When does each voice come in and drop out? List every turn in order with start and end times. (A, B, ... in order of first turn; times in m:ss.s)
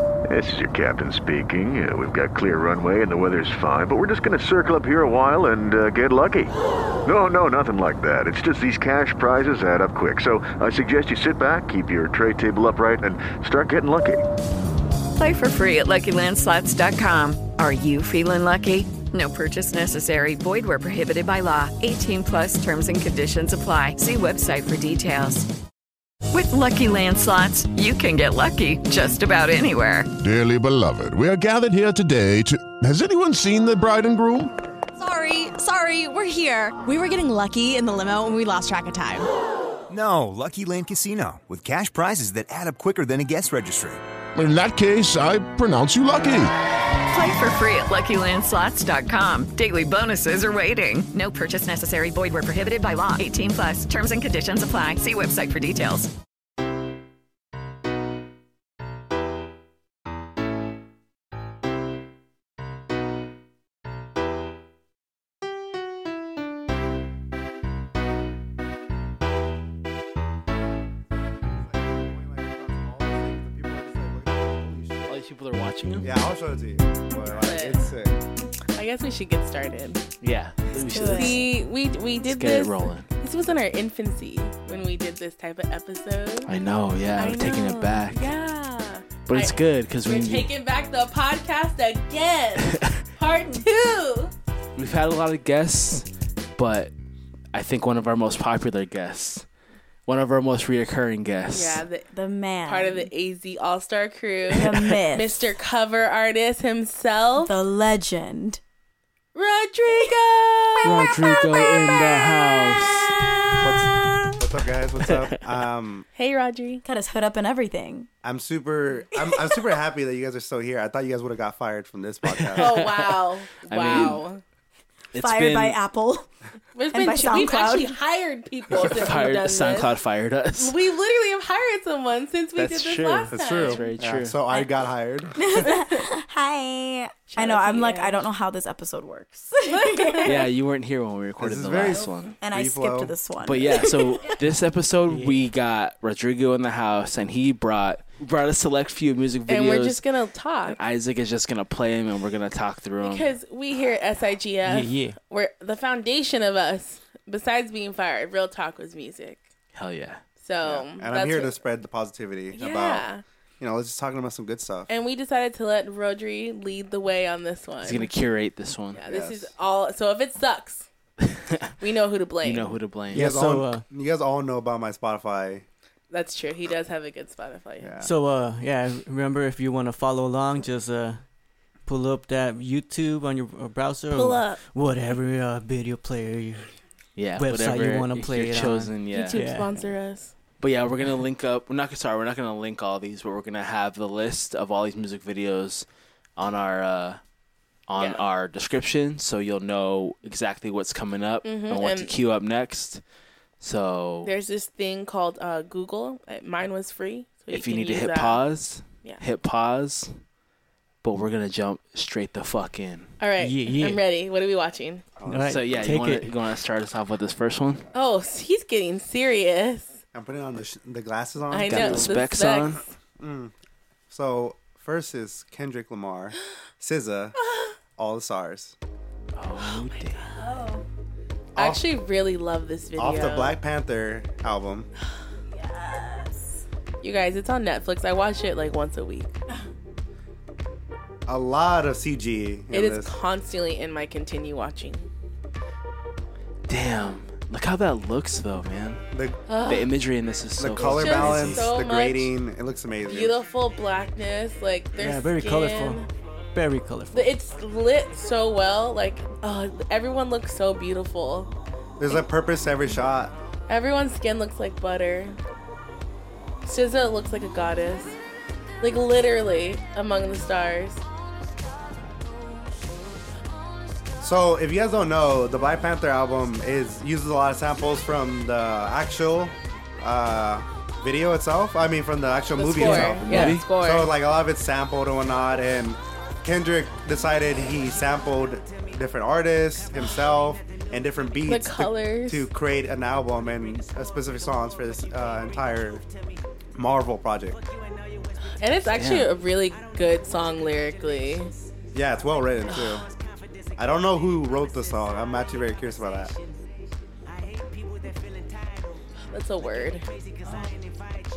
0:00.3-0:06.5 A
0:07.0-0:14.2 A
0:15.2-0:25.5 B
0:26.3-0:30.1 B
0:30.2-0:34.5 C
0:35.0-0:39.3 D
0:39.9-0:44.0 E
0:44.4-0:46.6 C
0:47.1-0:56.1 B
1:11.3-1:15.2 F
1:15.1-1:16.1 G
1:16.0-1:18.2 F
1:17.3-1:17.9 H
1:18.8-1:20.0 H
1:20.2-1:21.5 G
1:20.7-1:21.4 I
1:21.1-1:26.5 H
1:22.3-1:23.1 G
1:26.5-1:28.2 G
1:27.2-1:34.3 H
1:29.3-1:30.5 G
1:32.7-1:33.0 G
1:34.8-1:36.9 G
1:37.5-1:39.4 G
1:40.1-1:41.8 G
1:41.5-1:42.1 H
1:42.1-1:43.1 I
1:42.6-1:47.5 H
1:44.5-1:45.4 I
1:47.4-1:48.6 I
1:49.4-1:53.7 H
1:50.8-1:53.7 G
1:53.6-1:56.1 F
1:56.2-1:56.8 H
1:56.8-1:58.1 I
1:58.2-2:02.9 F
2:02.3-2:04.2 G
2:02.6-2:04.4 H
2:05.1-2:05.8 G
2:05.2-2:06.3 I
2:06.8-2:09.9 H
2:06.9-2:08.0 I
2:08.8-2:10.8 G
2:10.6-2:13.9 H
2:12.6-2:14.4 G
2:13.3-2:15.6 F
2:15.4-2:20.4 I
2:15.7-2:16.0 H
2:17.3-2:18.2 H
2:19.7-2:20.4 H
2:20.2-2:22.3 G
2:21.4-2:23.2 F
2:22.0-2:22.3 H
2:22.4-2:24.4 I
2:23.4-2:30.0 G
2:25.1-2:25.5 J
2:29.5-2:30.8 H
2:30.7-2:33.3 G
2:33.0-2:39.5 H
2:34.6-2:35.2 J
2:39.8-2:40.2 G
2:40.4-2:41.6 H
2:40.6-2:43.1 F
2:42.5-2:43.2 H
2:43.6-2:44.9 F
2:44.9-2:48.1 H
2:47.8-2:49.0 G
2:49.0-2:50.9 H
2:49.1-2:49.5 F
2:51.2-2:51.7 G
2:51.8-2:52.7 H
2:52.4-2:53.3 G
2:53.1-2:53.8 J
2:53.1-2:55.6 F
2:56.1-2:57.9 H
2:57.8-2:58.1 F
2:58.0-3:01.2 J
3:01.9-3:06.8 J
3:04.1-3:04.6 H
3:07.2-3:09.4 G
3:07.4-3:09.9 J
3:09.1-3:10.4 H
3:10.6-3:17.2 G
3:17.9-3:23.0 G
3:18.0-3:18.2 H
3:21.4-3:22.1 H
3:23.6-3:24.3 G
3:24.2-3:28.4 H
3:27.5-3:30.2 G
3:31.0-3:33.1 G
3:33.2-3:35.1 H
3:33.4-3:34.0 J
3:35.2-3:36.1 F
3:35.2-3:36.3 J
3:35.5-3:37.8 G
3:37.9-3:40.0 H
3:40.1-3:42.2 F
3:41.5-3:42.9 H
3:41.7-3:42.8 G
3:43.2-3:43.5 F
3:44.1-3:47.4 F
3:47.4-3:47.7 H
3:48.0-3:48.8 F
3:49.4-3:50.2 G
3:49.6-3:50.4 H
3:50.4-3:50.9 I
3:51.6-3:51.9 F
3:51.6-3:53.6 H
3:53.0-3:54.9 F
3:55.5-3:56.6 I
3:57.0-3:59.4 H
4:01.3-4:03.1 F
4:02.7-4:05.1 H
4:06.7-4:09.0 G
4:09.1-4:09.4 F
4:09.5-4:09.9 H
4:09.7-4:11.7 G
4:10.6-4:13.4 F
4:10.8-4:12.3 H
4:13.1-4:16.1 H
4:15.0-4:17.4 J
4:17.1-4:21.5 H
4:22.0-4:23.3 F
4:23.7-4:25.4 H
4:26.7-4:28.2 H
4:28.8-4:31.0 H
4:34.2-4:56.0 F
4:42.5-4:44.1 H
4:42.8-4:43.6 G
4:43.2-4:43.6 J
4:51.4-4:52.5 H
4:56.8-4:57.6 F
4:58.6-5:01.5 H
4:59.0-4:59.3 G
5:01.9-5:03.1 F
5:03.8-5:06.4 F
5:09.3-5:10.0 H
5:10.5-5:10.8 F